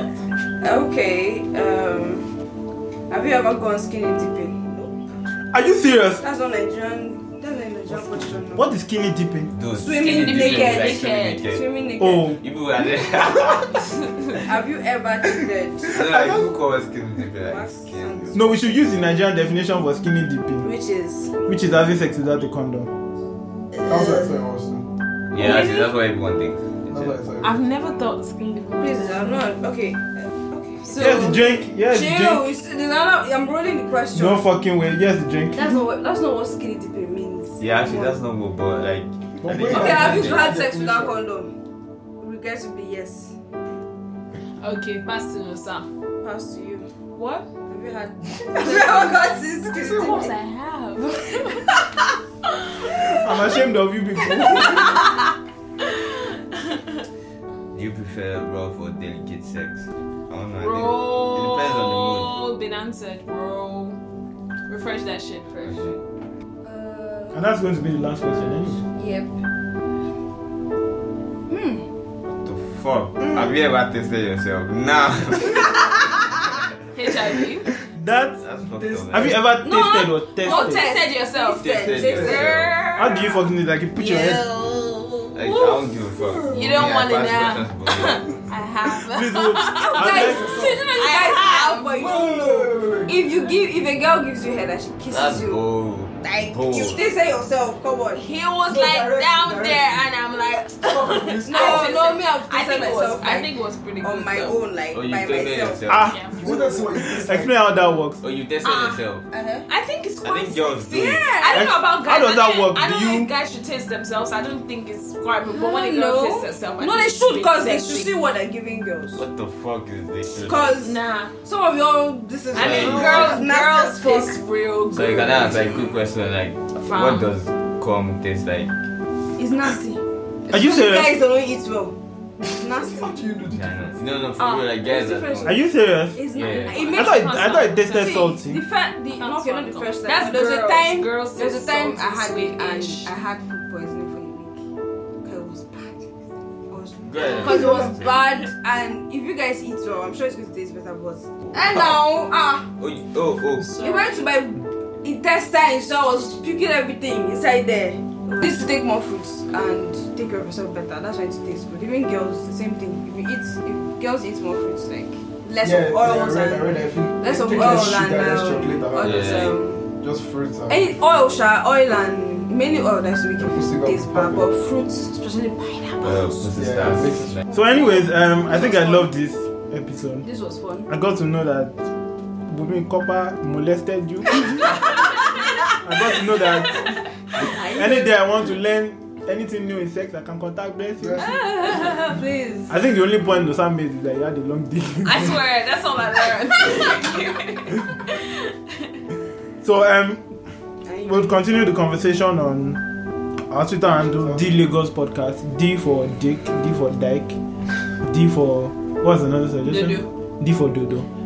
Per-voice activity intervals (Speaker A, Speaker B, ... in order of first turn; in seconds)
Speaker A: 0.6-2.3, 3.1-5.0, 6.2-8.7, 9.8-12.4, 14.4-16.0, 17.4-19.0, 20.6-21.3, 28.8-34.4, 35.5-38.2, 39.6-41.5, 42.2-43.4, 46.2-46.9, 47.7-50.3, 66.6-67.4, 68.9-69.3, 71.5-71.8, 80.4-82.6, 84.0-85.4, 86.2-86.7, 89.8-95.6, 96.2-98.2, 101.5-103.5, 104.0-105.8, 106.4-106.9, 108.6-109.7, 110.9-111.8, 115.5-119.2, 120.5-124.4, 129.4-131.9, 132.5-133.2, 134.4-137.3, 137.9-144.6, 145.2-146.1, 146.7-152.7, 153.8-169.8, 170.7-176.5, 177.4-179.1, 180.2-180.9, 187.4-188.2, 191.2-192.7, 200.9-201.2
Speaker B: 5.5-6.2, 8.0-9.5, 12.0-12.4, 15.9-16.5, 18.3-20.7, 21.4-22.9, 30.9-32.4, 34.1-35.7, 52.9-54.9, 67.3-68.8, 78.0-78.4, 79.0-80.8, 83.0-84.5, 89.1-90.5, 105.9-106.3, 106.9-108.2, 111.5-113.3, 130.5-131.2, 135.4-136.2, 136.9-138.6, 177.5-180.2, 180.9-181.8, 182.5-184.7, 185.8-186.8, 187.7-191.3, 192.7-195.4, 199.6-200.2, 201.0-202.8, 203.5-207.4, 208.0-211.1
Speaker C: 9.5-11.6, 12.4-13.8, 15.9-18.4, 25.3-27.1, 37.6-40.6, 57.7-62.4, 65.6-66.0, 72.2-76.3, 78.4-79.4, 81.6-82.8, 85.3-88.2, 95.1-97.1, 104.9-106.1, 108.2-109.2, 110.2-111.3, 119.2-120.8, 122.5-123.4, 124.9-128.7, 133.5-135.6, 136.3-136.9, 147.0-148.2, 151.6-152.1, 152.8-153.7, 169.0-169.6, 176.0-177.4
Speaker D: 9.9-11.4, 25.4-25.9, 27.4-29.5, 30.9-31.4, 44.6-45.9, 47.1-47.5, 48.6-51.7, 54.6-54.9, 55.8-57.0, 60.6-64.0, 64.7-65.9, 76.9-77.7, 79.6-83.4, 86.5-92.1, 98.2-104.6, 106.1-106.5, 109.7-118.1, 120.8-121.3, 122.5-125.8, 126.8-127.3, 136.4-138.3, 139.2-143.1, 147.4-147.9, 153.6-154.2, 195.0-198.4, 209.7-210.1
Speaker E: 23.9-24.9, 26.9-27.6, 39.4-41.2, 78.8-79.4, 81.9-82.4, 90.1-90.9, 91.9-93.2, 98.7-100.0, 100.8-102.1, 106.4-107.6, 132.5-133.9, 165.6-170.9, 173.4-174.4, 176.5-177.4, 191.0-191.3, 204.2-204.4